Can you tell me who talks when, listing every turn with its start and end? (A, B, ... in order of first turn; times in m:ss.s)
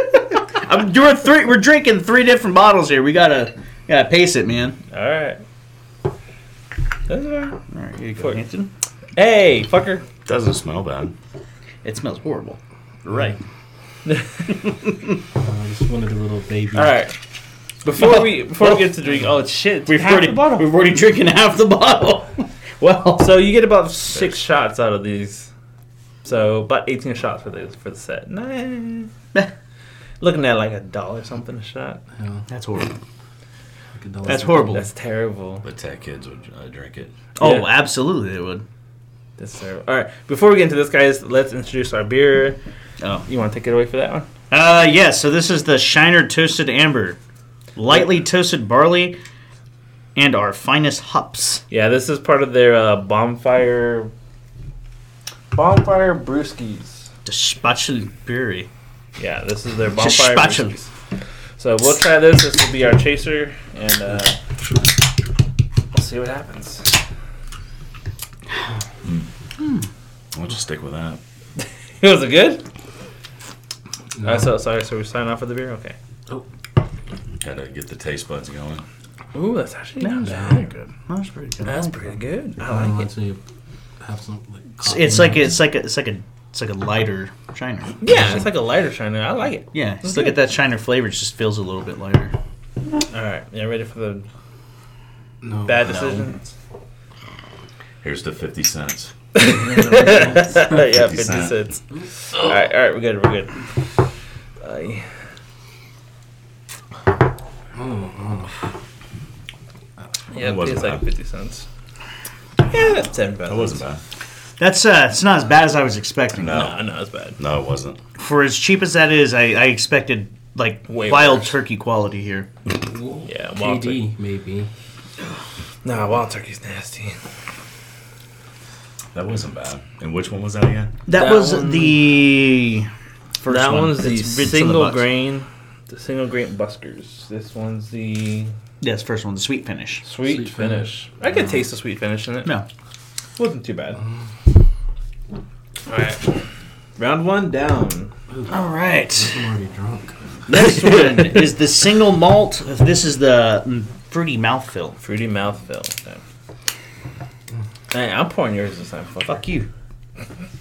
0:00.5-0:04.8 A
0:04.9-0:05.4 B
0:07.1-0:07.6 B
0:07.7-0:08.7 A
0:09.2-0:10.0 B
0:10.2-0:11.1 C
0:11.8-0:13.4 A
0:14.5-0:15.2 A
0:15.4-0:17.0 D
0:16.8-0:17.1 B
0:17.8-0:20.6 B
0:17.9-0:18.9 A
0:19.9-0:23.3 A
0:23.2-0:25.5 B
0:24.1-0:24.4 C
0:26.2-0:29.1 B
0:30.2-0:32.0 B
0:32.2-0:32.5 D
0:32.5-0:33.0 A
0:34.0-0:34.8 D
0:34.3-0:34.8 A
0:34.7-0:35.6 B
0:35.6-0:37.1 C
0:37.4-0:38.7 A
0:37.4-0:37.7 B
0:39.4-0:42.6 B
0:43.3-0:44.3 B
0:44.5-0:47.2 A
0:47.8-0:49.2 A
0:50.2-0:51.6 A
0:51.7-0:54.1 B
0:55.5-0:57.0 B
0:57.2-0:58.7 A
0:59.2-1:00.9 B
1:00.0-1:00.8 A
1:01.6-1:04.4 B
1:05.9-1:06.9 B
1:10.3-1:11.2 C
1:12.0-1:12.6 B
1:14.2-1:14.5 D
1:14.2-1:16.0 B
1:17.4-1:18.8 C
1:19.3-1:20.7 B
1:20.0-1:22.2 A
1:20.2-1:20.6 D
1:21.7-1:23.1 B
1:22.7-1:23.4 D
1:24.0-1:25.5 D
1:24.8-1:28.3 A
1:28.0-1:30.3 B
1:29.7-1:32.3 A
1:33.1-1:34.3 B
1:35.4-1:35.8 D
1:35.7-1:36.5 B
1:35.8-1:36.3 A
1:38.0-1:39.1 C
1:39.4-1:43.6 B
1:40.7-1:41.5 C
1:44.6-1:45.1 B
1:47.8-1:48.5 D
1:50.3-1:51.7 B
1:50.4-1:51.0 C
1:52.7-1:53.8 B
1:53.5-1:54.0 C
1:54.6-1:56.7 A
1:56.4-1:56.8 C
1:56.5-1:57.4 B
1:57.4-1:58.0 C
1:58.2-2:02.5 A
2:00.9-2:01.6 B
2:02.8-2:04.7 D
2:03.3-2:04.0 B
2:05.8-2:07.2 B
2:09.1-2:10.9 C
2:11.1-2:12.9 A
2:11.1-2:12.0 B
2:13.4-2:15.0 A
2:13.5-2:18.5 B
2:18.8-2:20.0 A
2:20.0-2:22.6 B
2:20.2-2:20.9 D
2:23.4-2:24.0 B
2:25.9-2:26.2 B
2:27.0-2:28.1 B
2:28.5-2:29.4 A
2:29.2-2:30.1 D
2:30.5-2:35.0 A
2:30.5-2:31.4 B
2:35.0-2:36.2 B
2:37.9-2:39.4 B
2:39.3-2:39.7 A